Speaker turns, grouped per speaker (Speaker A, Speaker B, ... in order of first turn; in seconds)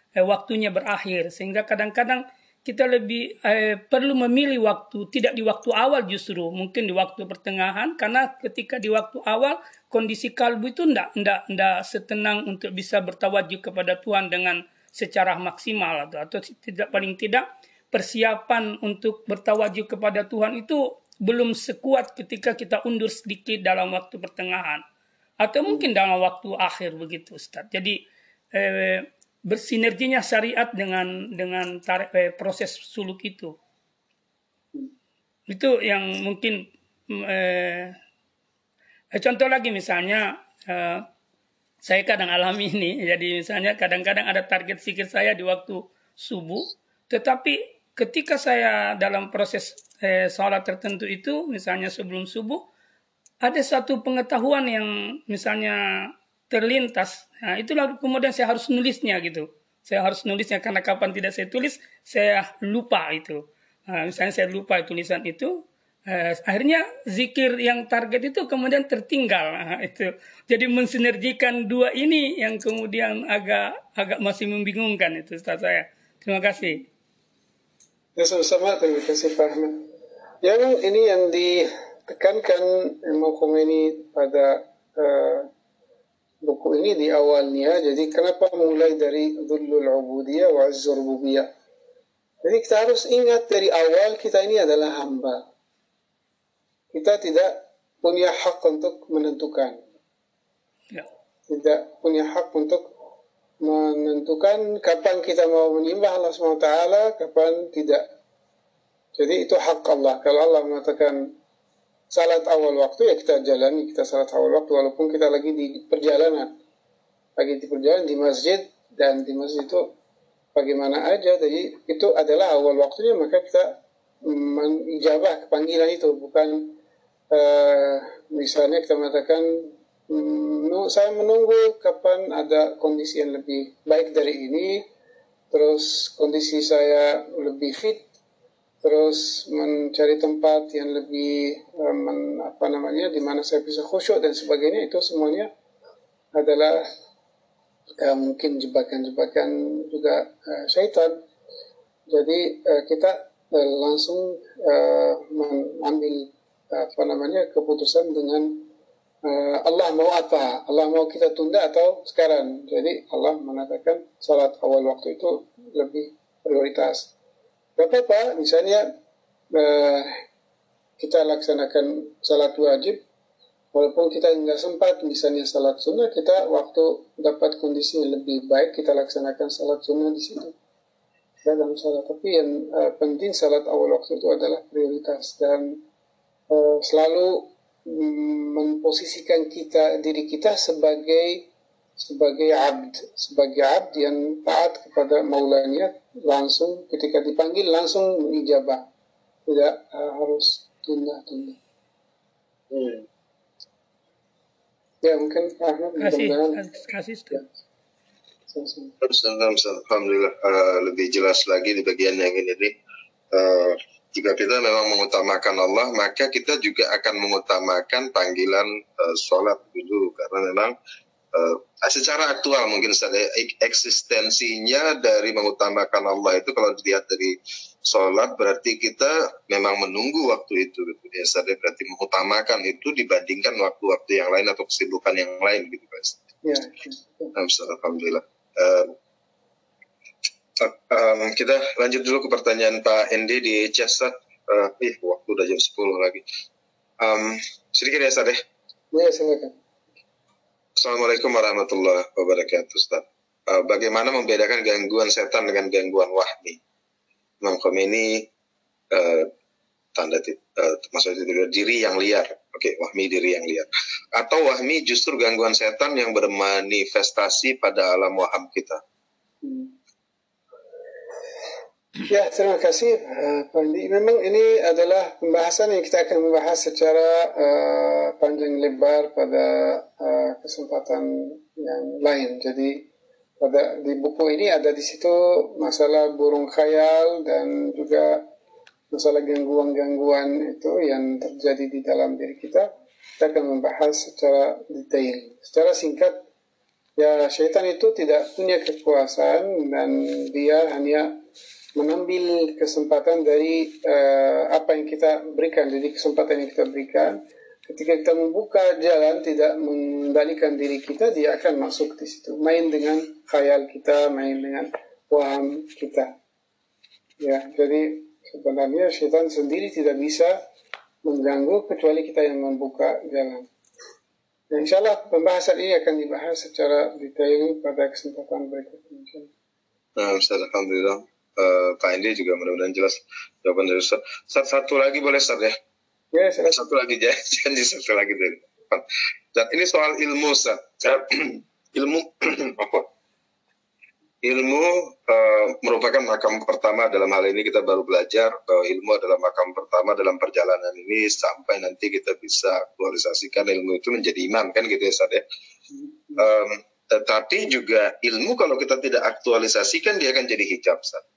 Speaker A: 0.2-24.8, 25.4-28.0, 28.5-33.5, 35.5-38.0, 39.1-41.1, 41.8-52.6, 53.4-76.8, 206.0-207.4
Speaker B: 78.2-79.8, 80.4-85.5, 86.4-91.5, 92.4-95.4, 96.9-99.9, 101.5-102.9, 103.6-108.0, 109.2-111.2, 112.1-116.5, 117.4-119.9, 120.5-126.8, 127.3-134.8, 135.5-138.1, 138.8-145.5, 146.3-146.9, 148.0-151.2, 152.1-158.7, 159.2-167.1, 167.8-168.9, 169.5-170.2, 171.0-173.0, 173.7-180.6, 181.4-185.8, 186.5-191.4, 192.0-198.9, 199.5-201.6, 205.0-206.7, 208.5-208.9, 236.4-237.3, 248.9-249.6, 269.4-269.7, 272.1-282.9, 283.4-288.2, 288.9-292.7, 293.2-296.2, 297.0-301.2, 301.8-316.1, 317.2-320.4, 321.0-323.5, 324.5-329.3, 336.1-336.6, 355.7-356.2
Speaker C: 209.0-212.7, 213.3-220.7, 221.3-236.2, 237.3-238.9, 240.6-246.2, 247.0-248.4, 250.8-256.6, 257.4-258.3, 258.9-259.3, 259.9-268.8, 330.0-335.6, 336.5-342.9, 344.2-355.2, 356.2-361.0